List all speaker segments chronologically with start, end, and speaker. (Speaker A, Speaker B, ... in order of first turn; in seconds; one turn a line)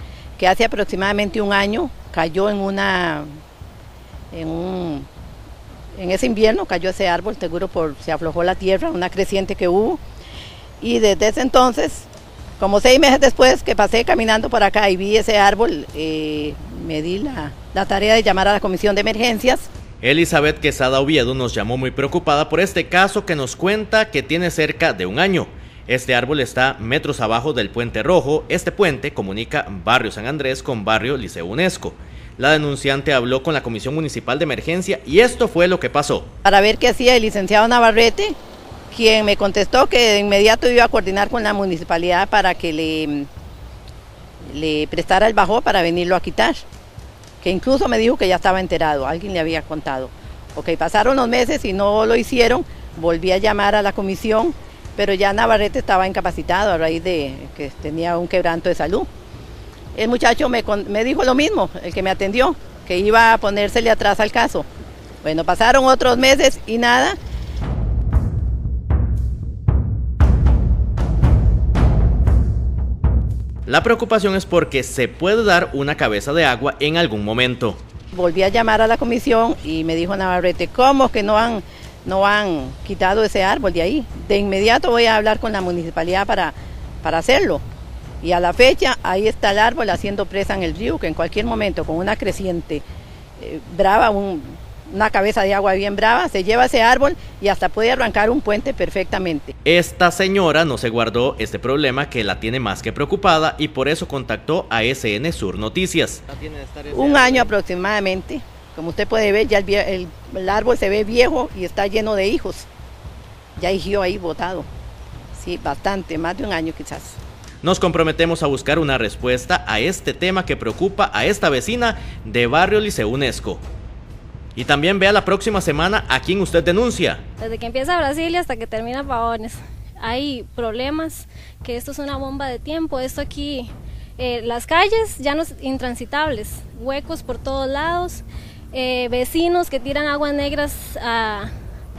Speaker A: 0.4-3.3
Speaker A: 4.3-5.1
Speaker A: 6.0-10.0
Speaker A: 10.8-12.1
Speaker A: 12.6-19.7
Speaker B: 20.0-36.3
Speaker A: 36.5-38.4
Speaker A: 38.9-43.3
Speaker A: 44.5-46.6
Speaker A: 47.4-59.1
Speaker A: 60.0-64.7
Speaker A: 65.2-67.2
Speaker B: 73.7-77.8
Speaker A: 78.1-87.6
Speaker A: 88.2-92.8
Speaker A: 93.4-99.5
Speaker B: 99.7-107.5
Speaker A: 106.9-112.7
Speaker A: 113.6-114.7
Speaker A: 115.3-117.2
Speaker B: 117.6-123.6
Speaker B: 124.6-127.2
Speaker C: 127.4-141.5